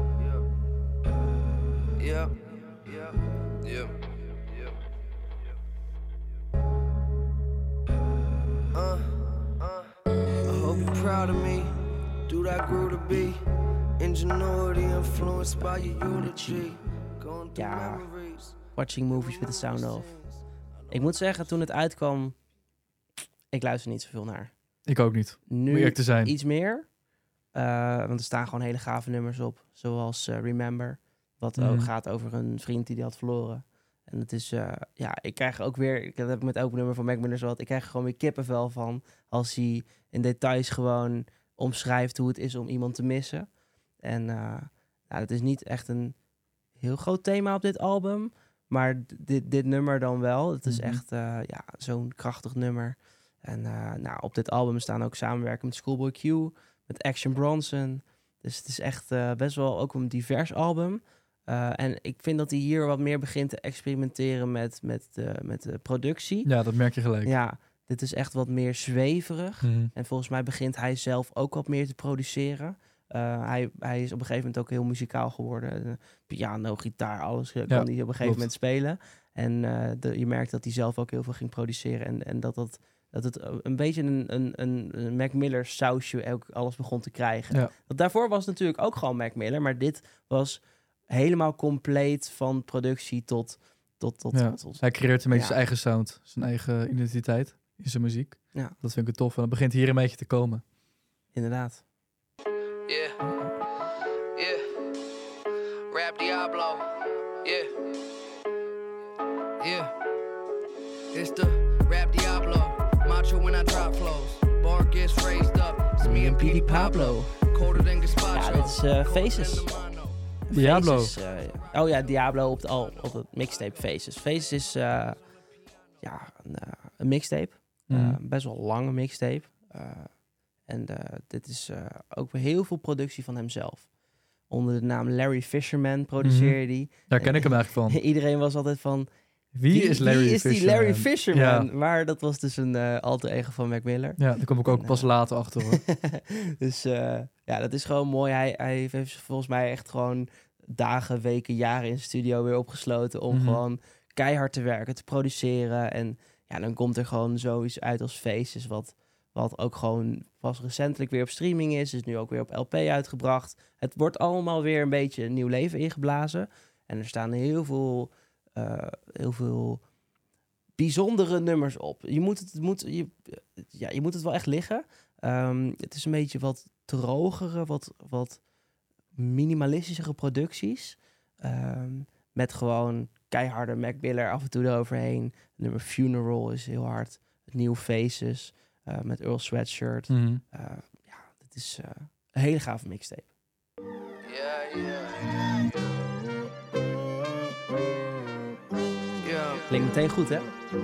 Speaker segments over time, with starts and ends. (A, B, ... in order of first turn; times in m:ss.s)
0:00.2-0:00.4 A
0:02.0-0:04.7 A
0:08.7-0:09.9 A
0:10.5-0:13.4 A
0:14.0-0:18.6 A
0:16.4-0:16.7 B
0:17.6-0:18.1 B
0:18.7-0:20.1 B
0:19.2-0:20.4 A
0:20.9-0:22.4 B
0:23.5-0:24.5 B
0:24.9-0:26.3 C
0:25.5-0:26.9 B
0:27.5-0:43.5 B
0:31.6-0:31.9 C
0:44.0-0:46.2 B
0:46.8-1:06.5 B
0:50.7-0:51.0 C
1:06.4-1:07.3 C
1:07.2-1:35.6 B
1:09.6-1:09.9 C
1:17.7-1:18.5 C
1:34.3-1:40.6 C
1:41.3-1:41.8 B
1:42.9-1:43.2 A
1:44.4-1:44.7 A
1:45.9-1:47.7 A
1:49.6-1:49.9 A
1:51.1-2:00.2 A
1:56.0-1:57.4 B
1:58.3-1:59.7 B
2:00.5-2:05.2 B
2:00.5-2:01.2 C
2:06.0-2:13.9 B
2:07.9-2:08.2 C
2:14.5-2:19.1 B
2:16.2-2:18.0 C
2:19.5-2:21.7 C
2:19.7-2:49.8 B
2:24.2-2:25.8 C
2:33.3-2:33.6 C
2:50.8-2:58.4 B
2:59.2-3:13.3 B
3:10.1-3:10.4 C
3:14.2-3:15.6 A
3:19.2-3:19.7 A
3:19.7-3:20.5 B